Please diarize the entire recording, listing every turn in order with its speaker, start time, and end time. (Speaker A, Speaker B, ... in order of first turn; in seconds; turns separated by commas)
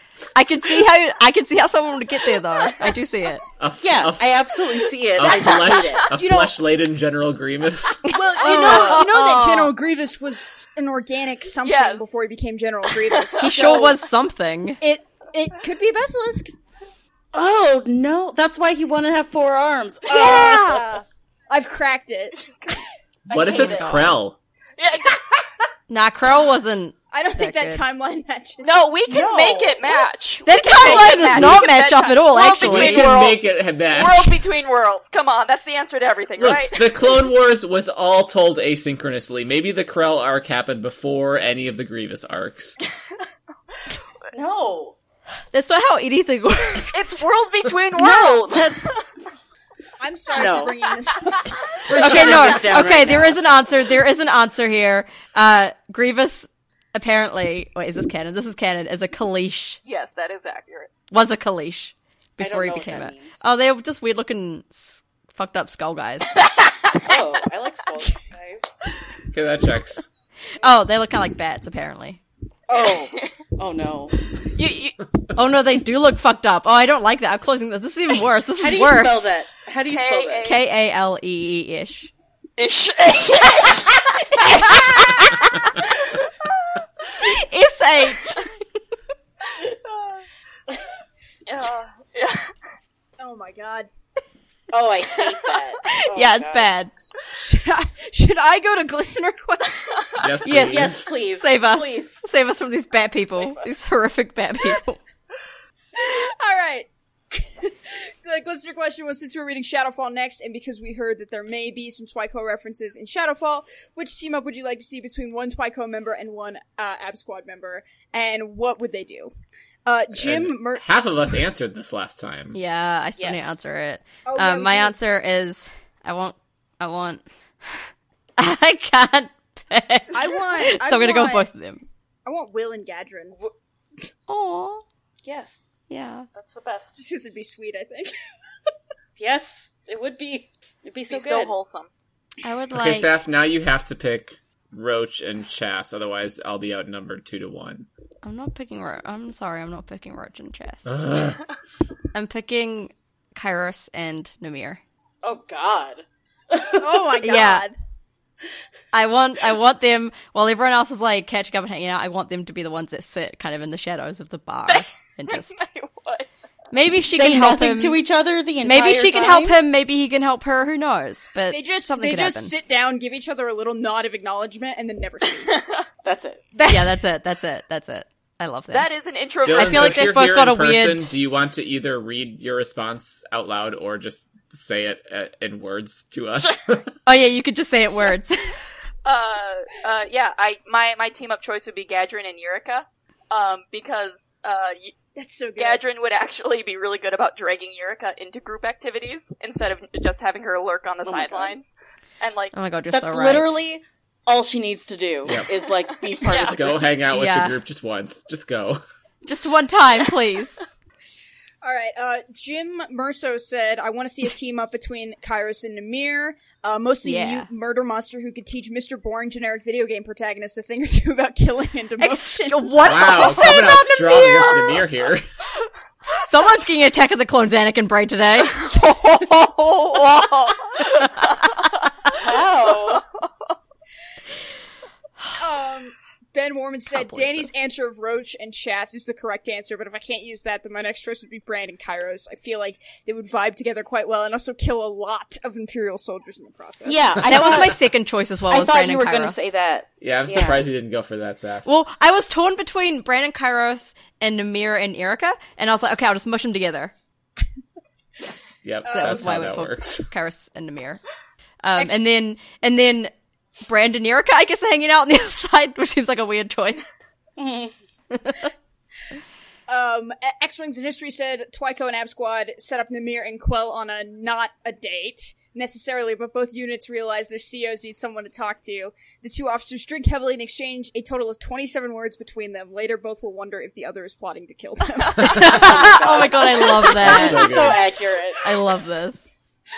Speaker A: 0.3-3.4, Speaker B: 3.6-4.5, Speaker C: 3.8-6.1, Speaker B: 5.2-8.1, Speaker D: 6.2-6.5, Speaker D: 8.1-13.9, Speaker C: 8.4-9.6, Speaker A: 8.5-9.6, Speaker E: 11.6-12.1, Speaker E: 13.0-13.4, Speaker A: 13.4-14.8, Speaker C: 13.4-13.9, Speaker D: 14.8-16.5, Speaker C: 17.3-21.0, Speaker D: 20.1-21.0, Speaker D: 21.5-22.4, Speaker E: 22.4-22.8, Speaker C: 23.3-24.1, Speaker B: 23.3-24.4, Speaker A: 23.5-24.1, Speaker E: 24.8-25.2, Speaker A: 25.9-27.8, Speaker D: 27.1-28.8, Speaker E: 28.6-37.2, Speaker C: 29.1-30.1, Speaker A: 30.5-33.2, Speaker B: 32.6-34.4, Speaker B: 36.4-42.8, Speaker C: 44.3-45.0, Speaker A: 45.5-47.2, Speaker E: 46.9-49.0, Speaker C: 48.0-49.0, Speaker D: 50.0-52.6, Speaker C: 50.3-50.9, Speaker C: 51.9-53.4, Speaker A: 51.9-59.8, Speaker E: 59.9-60.9, Speaker A: 61.1-66.3, Speaker C: 62.4-63.4, Speaker E: 66.4-67.2, Speaker C: 67.0-68.7, Speaker B: 69.3-70.1, Speaker A: 70.6-72.2, Speaker C: 72.7-74.2, Speaker E: 72.8-73.3, Speaker E: 74.5-75.0, Speaker A: 75.3-79.3, Speaker C: 78.6-80.5, Speaker E: 79.9-80.6, Speaker A: 80.5-82.1, Speaker E: 82.6-85.1, Speaker A: 84.4-85.7, Speaker E: 85.8-86.3, Speaker A: 87.2-88.5, Speaker E: 91.5-92.5, Speaker D: 93.2-93.9, Speaker C: 94.7-96.7, Speaker A: 95.9-96.9, Speaker D: 97.4-100.0, Speaker B: 100.2-101.1, Speaker A: 100.5-105.0, Speaker C: 100.7-102.2, Speaker D: 106.0-119.3, Speaker D: 119.9-120.8, Speaker B: 120.2-122.6, Speaker A: 122.5-127.8, Speaker C: 123.2-123.6, Speaker D: 124.3-125.0, Speaker A: 128.4-131.8, Speaker D: 130.1-131.5, Speaker D: 132.3-133.4, Speaker A: 134.3-134.8, Speaker C: 135.2-135.7, Speaker A: 135.9-136.3, Speaker C: 136.3-136.9, Speaker D: 137.0-138.1, Speaker C: 139.2-141.5, Speaker E: 141.1-141.9, Speaker A: 142.4-143.1, Speaker B: 142.8-147.9, Speaker A: 148.2-150.9, Speaker B: 150.9-151.4, Speaker A: 152.1-154.8, Speaker C: 155.2-157.2, Speaker D: 156.8-157.7, Speaker A: 157.2-157.7, Speaker A: 158.9-165.6, Speaker E: 164.7-166.3, Speaker A: 166.7-168.0, Speaker C: 167.1-169.6, Speaker A: 168.6-172.5, Speaker D: 171.5-175.6, Speaker C: 176.0-176.4, Speaker D: 176.6-177.0, Speaker A: 176.7-178.9, Speaker E: 178.7-180.1, Speaker B: 179.4-186.9, Speaker A: 179.4-181.1, Speaker A: 187.1-188.6, Speaker E: 189.1-194.9, Speaker D: 195.2-195.8, Speaker E: 195.6-202.5, Speaker C: 201.1-201.6, Speaker A: 202.5-203.6, Speaker C: 202.9-206.8, Speaker E: 206.0-206.6, Speaker B: 206.4-208.8, Speaker A: 207.1-207.6, Speaker A: 209.2-210.6, Speaker D: 211.6-223.3, Speaker A: 217.0-217.5, Speaker A: 222.0-224.4, Speaker B: 222.8-225.3, Speaker E: 223.6-224.7, Speaker A: 226.2-228.7, Speaker E: 229.1-231.7, Speaker C: 232.1-233.0, Speaker E: 232.7-233.0, Speaker D: 235.4-247.6, Speaker A: 236.9-237.4, Speaker C: 246.8-247.8, Speaker A: 247.3-249.5, Speaker C: 248.5-250.7, Speaker B: 250.0-251.7, Speaker A: 251.7-256.9, Speaker C: 258.2-258.5, Speaker B: 258.6-260.1, Speaker A: 258.9-261.0, Speaker D: 259.0-259.2, Speaker A: 261.6-263.1, Speaker A: 263.6-266.9, Speaker C: 267.4-267.7, Speaker A: 268.1-268.5, Speaker D: 269.7-287.4, Speaker A: 285.3-287.5, Speaker C: 285.4-288.4, Speaker B: 286.9-287.8, Speaker A: 288.4-289.3